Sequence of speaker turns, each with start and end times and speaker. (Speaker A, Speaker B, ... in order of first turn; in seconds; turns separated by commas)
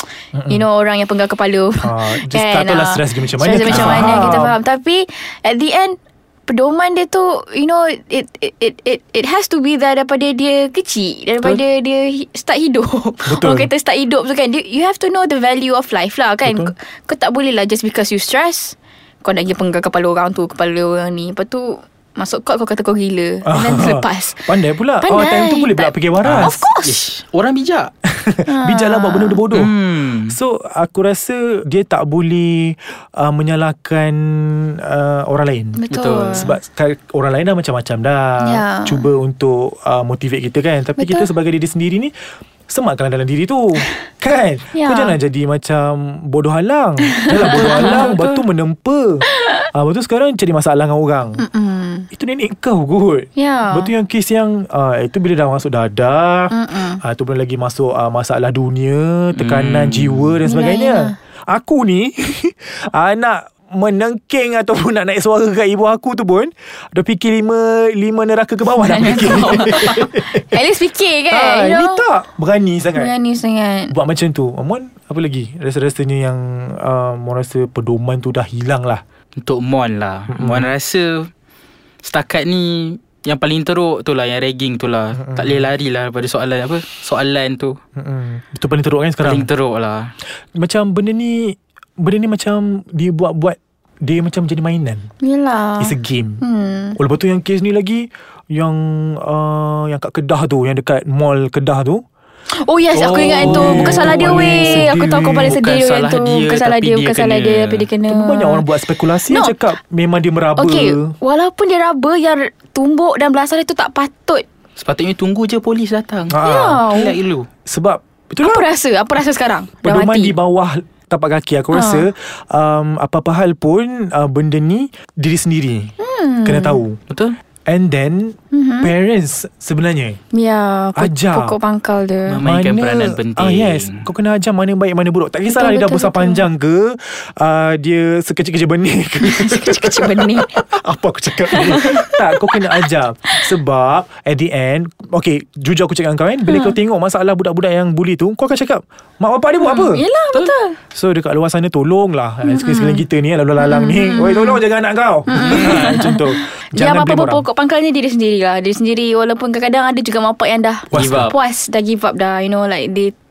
Speaker A: 0.3-0.7, Speaker B: 0.5-27.0, Speaker A: 1.8-4.6, Speaker C: 3.7-4.4, Speaker A: 13.3-13.7, Speaker A: 16.4-16.7, Speaker A: 23.4-26.6, Speaker C: 26.2-27.9, Speaker A: 28.1-29.7, Speaker B: 28.5-29.4, Speaker C: 29.5-30.4, Speaker A: 30.3-42.1, Speaker B: 35.8-36.5, Speaker C: 35.9-36.5, Speaker B: 38.4-39.0, Speaker B: 41.0-41.3, Speaker A: 42.7-51.4, Speaker B: 44.7-45.2, Speaker B: 47.2-48.2, Speaker C: 47.4-48.2, Speaker B: 51.4-52.1, Speaker A: 52.1-70.3, Speaker B: 53.4-53.9, Speaker B: 56.5-57.0, Speaker C: 59.4-60.4, Speaker B: 60.5-61.1, Speaker B: 68.8-72.0, Speaker A: 71.3-73.1, Speaker B: 73.0-73.9, Speaker A: 73.9-79.0, Speaker C: 79.4-81.3, Speaker A: 80.3-80.7, Speaker C: 82.0-87.8, Speaker A: 85.1-85.7, Speaker A: 88.0-89.5, Speaker C: 89.2-90.1, Speaker A: 90.6-95.1, Speaker B: 95.2-97.0, Speaker A: 95.8-96.4, Speaker A: 97.0-102.0, Speaker B: 102.6-109.6, Speaker A: 102.9-105.6, Speaker C: 102.9-107.9, Speaker A: 108.1-111.1, Speaker B: 110.6-114.4, Speaker C: 114.8-117.5, Speaker A: 116.3-118.7, Speaker B: 116.4-117.2, Speaker B: 118.4-120.4, Speaker A: 119.8-127.0, Speaker B: 121.7-122.1, Speaker B: 126.0-126.8, Speaker C: 127.1-127.4, Speaker A: 127.7-130.2, Speaker B: 128.5-128.9, Speaker B: 130.3-132.4, Speaker A: 131.0-131.6, Speaker C: 132.3-134.0, Speaker A: 132.4-150.1, Speaker B: 135.5-136.5, Speaker B: 139.2-140.7, Speaker B: 141.5-142.9, Speaker B: 146.5-146.8, Speaker B: 149.6-150.8, Speaker A: 150.9-157.4, Speaker B: 152.4-153.0, Speaker B: 153.6-154.6, Speaker B: 155.3-163.1, Speaker C: 155.3-155.9, Speaker A: 160.9-161.3, Speaker C: 160.9-161.3